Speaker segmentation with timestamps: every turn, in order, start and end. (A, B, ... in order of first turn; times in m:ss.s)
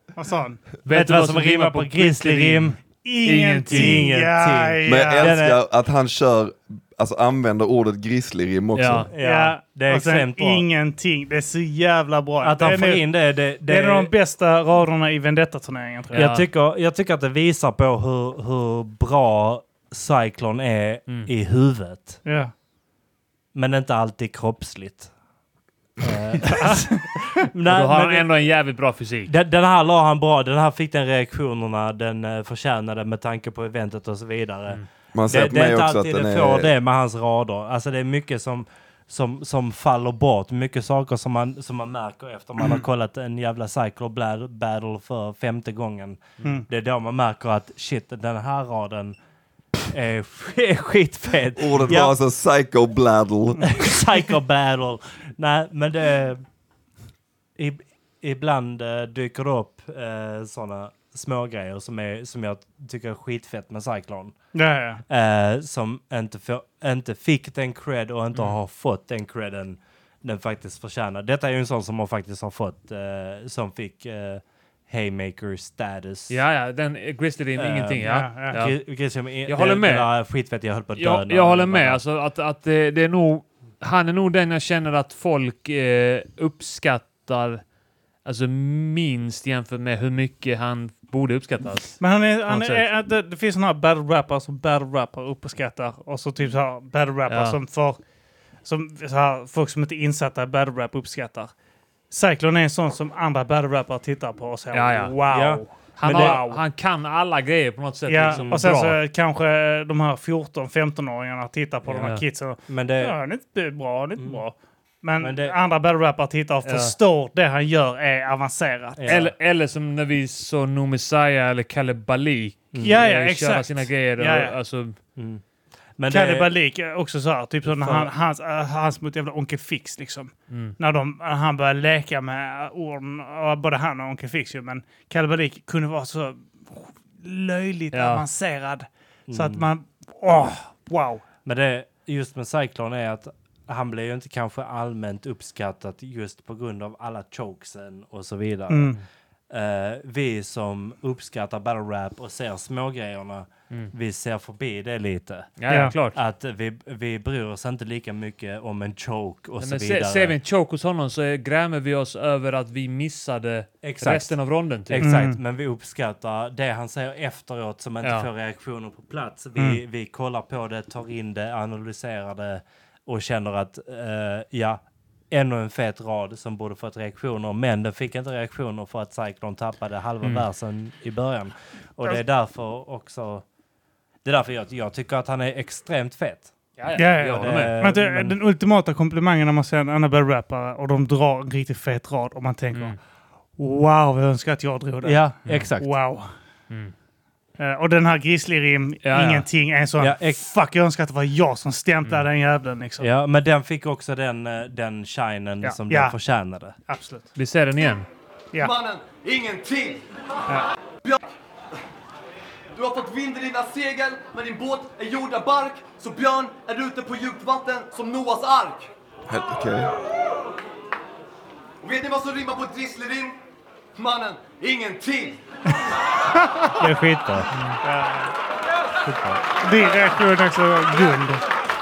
0:00.2-0:00.7 A
0:00.8-0:04.1 B
0:00.9-0:02.8 C
0:03.0-0:05.4 A
0:03.7-0:05.6 C
0:04.8-0:09.1 D
0:08.8-0:09.1 B
0:09.1-0:10.7 C
0:09.2-0:13.1 A
0:12.4-0:14.1 C
0:13.6-0:16.3 A
0:16.1-0:16.4 B
0:16.1-0:22.2 C
0:22.2-0:22.5 A
0:23.5-0:25.1 C
0:26.0-0:28.3 C
0:26.4-0:27.0 A
0:27.7-0:29.3 B
0:29.3-0:49.2 C
0:35.1-0:36.7 D
0:49.9-0:52.2 C
0:51.6-0:53.8 D
0:53.8-0:56.4 C
0:57.6-1:04.4 C
1:04.5-1:05.0 A
1:05.1-1:16.4 C
1:16.3-1:18.8 B
1:17.6-1:22.0 C
1:18.0-1:18.6 A
1:19.4-1:20.1 B
1:21.0-1:27.7 B
1:28.2-1:32.9 B
1:32.0-1:38.0 A
1:37.3-1:37.6 B
1:38.6-1:41.5 A
1:42.1-1:46.6 A
1:44.7-1:45.2 B
1:45.3-1:46.4 C
1:45.9-1:49.0 B
1:48.1-1:59.2 A
1:48.2-1:48.7 C
1:52.7-1:53.2 C
1:54.2-1:54.4 C
1:55.2-1:55.6 C
1:56.6-1:56.9 B
1:59.0-1:59.3 C
1:59.1-2:05.0 B
2:02.7-2:03.0 C
2:02.8-2:04.6 A
2:05.2-2:05.4 C
2:06.0-2:06.6 C
2:06.1-2:21.2 A
2:07.6-2:08.1 C
2:10.5-2:10.8 B
2:17.9-2:18.2 B
2:19.3-2:19.7 C
2:21.4-2:29.0 C
2:28.7-2:29.0 A
2:29.5-2:40.4 C
2:35.6-2:36.2 B
2:35.7-2:36.0 A
2:39.6-2:45.0 B
2:43.8-3:03.4 C
2:45.0-2:45.4 A
2:48.0-2:48.3 B
2:49.6-2:49.8 A
3:04.2-3:06.5 C
3:06.8-3:07.8 B
3:06.9-3:13.0 A
3:07.2-3:08.4 C
3:13.6-3:16.3 A
3:15.0-3:16.0 C
3:17.6-3:23.1 A
3:19.0-3:19.5 B
3:20.0-3:20.4 C
3:23.0-3:26.8 C
3:25.6-3:26.2 A
3:26.9-3:27.3 A
3:27.4-3:28.1 B
3:28.6-3:30.1 E
3:31.0-3:31.3 E
3:32.7-3:38.9 E
3:39.3-3:39.9 D
3:41.8-3:43.4 E
3:44.0-3:45.4 E
3:46.4-3:46.7 A
3:46.8-3:47.5 C
3:47.8-3:48.3 A
3:49.0-3:49.4 C
3:49.6-3:51.4 A